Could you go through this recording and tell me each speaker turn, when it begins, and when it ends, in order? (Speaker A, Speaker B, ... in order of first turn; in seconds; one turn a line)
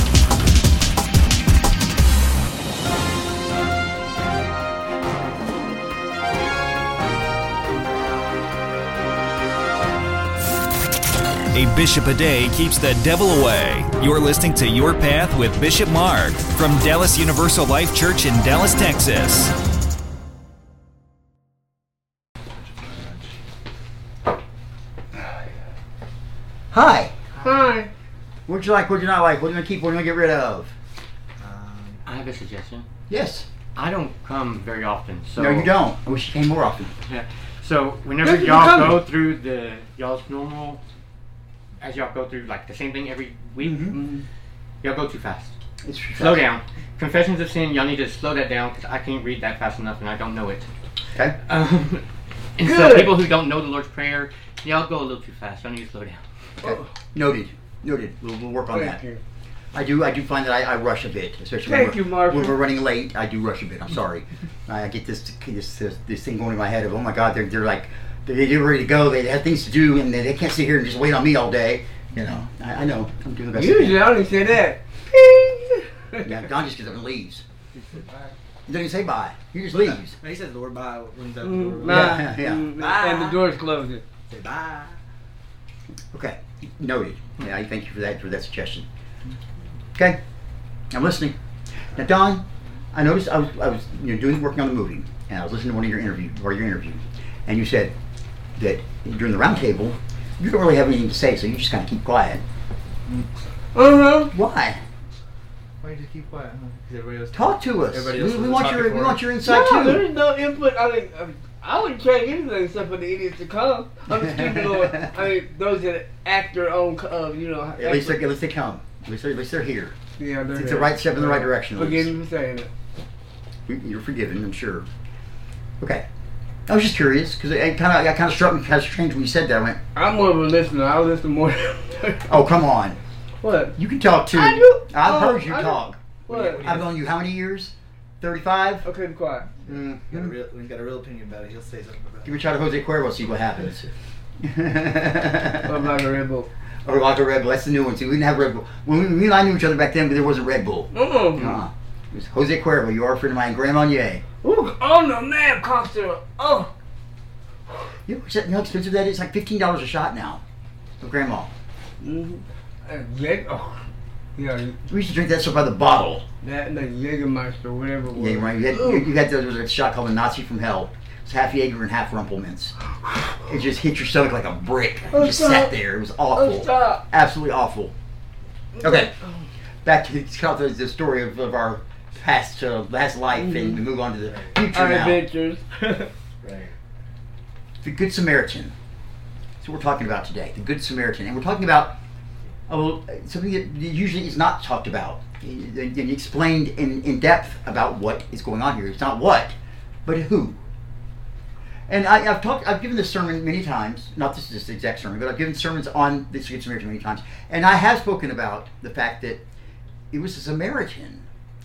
Speaker A: 11.5-19.5
Speaker B: 22.6-23.4
Speaker C: 26.7-27.1
Speaker D: 27.4-27.9
Speaker C: 28.5-30.7
Speaker B: 31.4-32.0
Speaker E: 32.0-32.9
Speaker C: 33.1-33.5
Speaker E: 33.8-35.7
Speaker C: 35.4-37.0
Speaker E: 37.0-40.8
Speaker D: 38.2-39.0
Speaker E: 41.8-43.9
Speaker C: 43.6-44.0
Speaker D: 43.9-44.2
Speaker E: 44.8-45.5
Speaker C: 45.8-46.4
Speaker E: 46.1-50.7
Speaker E: 51.4-56.2
Speaker D: 52.6-53.2
Speaker C: 56.6-59.0
Speaker D: 58.7-59.2
Speaker C: 59.7-74.0
Speaker D: 61.6-62.6
Speaker D: 73.5-76.2
Speaker C: 76.2-77.4
Speaker B: 77.7-78.3
Speaker C: 78.7-80.2
Speaker B: 79.7-83.4
Speaker D: 81.4-84.0
Speaker C: 81.8-82.7
Speaker B: 84.3-85.0
Speaker C: 86.1-88.9
Speaker C: 89.9-90.2
Speaker C: 90.9-91.4
Speaker C: 91.9-97.9
Speaker C: 98.5-102.4
Speaker D: 103.7-104.3
Speaker C: 104.3-104.8
Speaker B: 105.8-109.2
Speaker C: 107.3-110.0
Speaker D: 109.4-118.2
Speaker C: 117.8-120.0
Speaker D: 120.2-122.7
Speaker C: 120.5-122.1
Speaker C: 123.7-124.9
Speaker C: 125.8-126.0
Speaker C: 126.7-129.8
Speaker D: 129.9-132.4
Speaker C: 132.3-133.0
Speaker D: 133.4-133.8
Speaker C: 133.8-136.0
Speaker D: 134.3-136.7
Speaker B: 136.3-137.0
Speaker C: 136.6-138.8
Speaker D: 138.8-139.5
Speaker B: 139.6-142.5
Speaker C: 139.7-140.3
Speaker C: 142.2-145.9
Speaker D: 145.6-146.5
Speaker C: 146.8-154.2
Speaker D: 150.9-151.6
Speaker D: 154.4-156.7
Speaker C: 158.1-160.4
Speaker C: 161.0-161.5
Speaker D: 162.0-164.8
Speaker C: 164.9-166.2
Speaker D: 166.4-169.1
Speaker C: 168.1-172.8
Speaker C: 173.3-177.9
Speaker D: 175.1-175.8
Speaker D: 176.3-177.0
Speaker D: 178.8-179.4
Speaker C: 178.8-179.1
Speaker C: 179.8-185.2
Speaker D: 183.3-183.8
Speaker D: 184.7-186.1
Speaker B: 186.4-186.7
Speaker C: 187.8-188.7
Speaker C: 189.6-191.9
Speaker C: 192.7-200.6
Speaker C: 201.9-209.4
Speaker C: 210.1-211.2